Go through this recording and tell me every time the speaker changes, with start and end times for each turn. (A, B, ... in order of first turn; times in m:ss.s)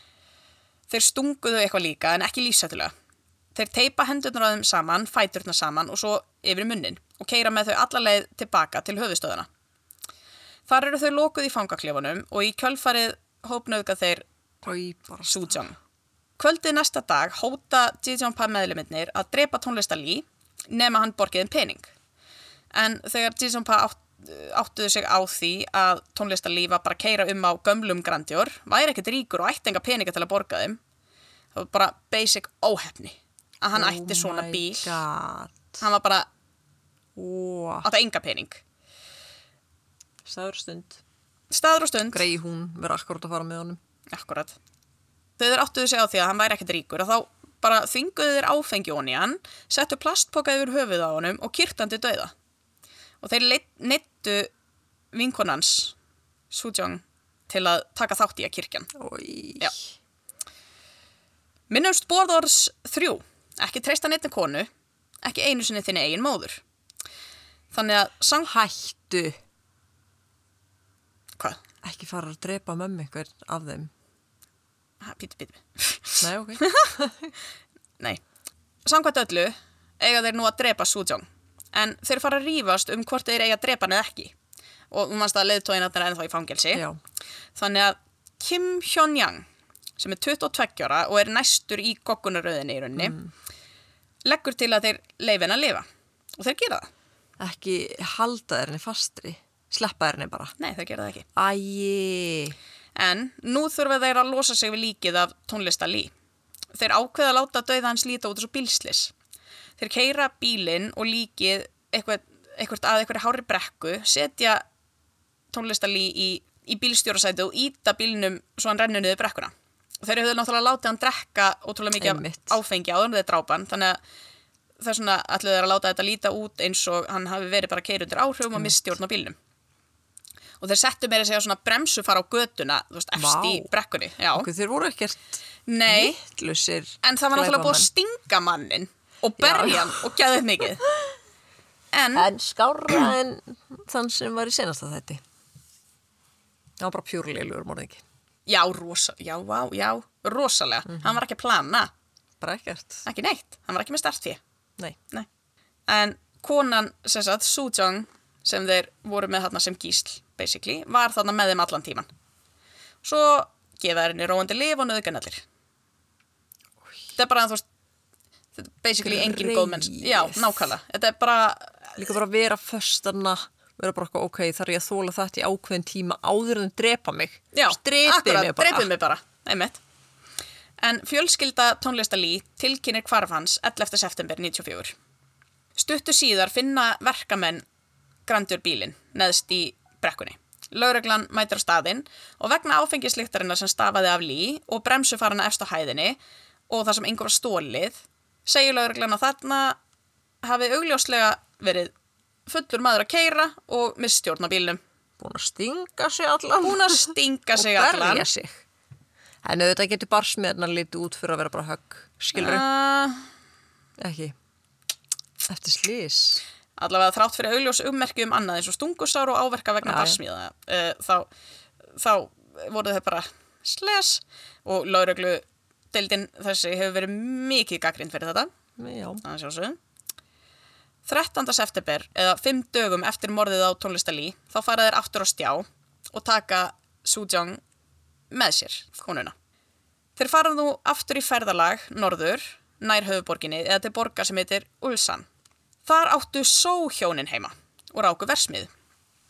0:00.9-0:02.9 A
0:03.5-0:09.5 A
0:10.7-0:14.2 A
0:14.6-0:15.6 B
0:15.3-0:15.8 A
0:16.4-0:21.9 A
0:22.7-0:30.8 A
0:31.5-0:35.0 A
0:33.7-0:35.8 B
0:35.8-0:36.3 A
0:37.2-0:37.8 B
0:37.8-0:38.6 A
0:40.2-0:41.0 B
0:41.5-0:42.3 A
0:42.1-0:43.8 B
0:44.1-0:44.5 A
0:45.4-0:52.3 A
0:53.2-0:54.5 A
0:55.1-0:55.9 A
0:56.5-0:58.9 A
0:59.0-0:59.9 B
1:01.7-1:04.7 A
1:05.2-1:06.6 A
1:07.7-1:08.5 A
1:08.4-1:09.4 B
1:11.8-1:13.9 B
1:15.0-1:16.9 A
1:16.2-1:17.3 B
1:18.8-1:24.3 A
1:24.9-1:26.8 A
1:27.6-1:29.4 A
1:30.0-1:33.2 A
1:33.0-1:33.3 B
1:34.2-1:35.8 A
1:36.4-1:36.9 A
1:37.4-1:40.5 B
1:40.6-1:41.3 A
1:41.4-1:42.6 B
1:43.0-1:46.1 A
1:46.7-1:49.1 A
1:49.8-1:54.6 A
1:55.5-1:59.5 A
2:00.0-2:04.0 A
2:02.0-2:02.6 B
2:04.8-2:09.4 A
2:10.6-2:14.5 A
2:13.2-2:13.7 B
2:14.3-2:15.4 B
2:15.7-2:16.2 A
2:15.9-2:17.9 B
2:17.0-2:20.9 A
2:19.4-2:20.1 B
2:21.9-2:22.3 A
2:22.2-2:25.2 B
2:26.8-2:28.0 B
2:28.5-2:31.9 A
2:32.4-2:33.0 B
2:33.0-2:34.4 A
2:35.9-2:42.1 A
2:43.0-2:45.4 A
2:47.2-2:47.6 A
2:48.6-2:52.0 A
2:49.0-2:50.7 B
2:52.0-2:58.9 B
2:57.5-2:59.8 A
3:00.8-3:04.9 A
3:05.8-3:07.6 A
3:08.3-3:16.2 A
3:16.7-3:19.8 A
3:20.4-3:21.9 A
3:22.5-3:24.8 A
3:25.2-3:28.6 B
3:26.6-3:28.3 A
3:29.4-3:32.6 B
3:32.3-3:33.3 A
3:34.0-3:34.3 B
3:35.4-3:36.4 B
3:36.8-3:41.3 A
3:39.8-3:40.2 B
3:42.0-3:48.5 A
3:48.8-3:49.2 B
3:49.2-3:49.8 A
3:51.0-3:57.6 A
3:58.3-3:59.3 A
4:00.2-4:05.2 A
4:05.8-4:08.7 A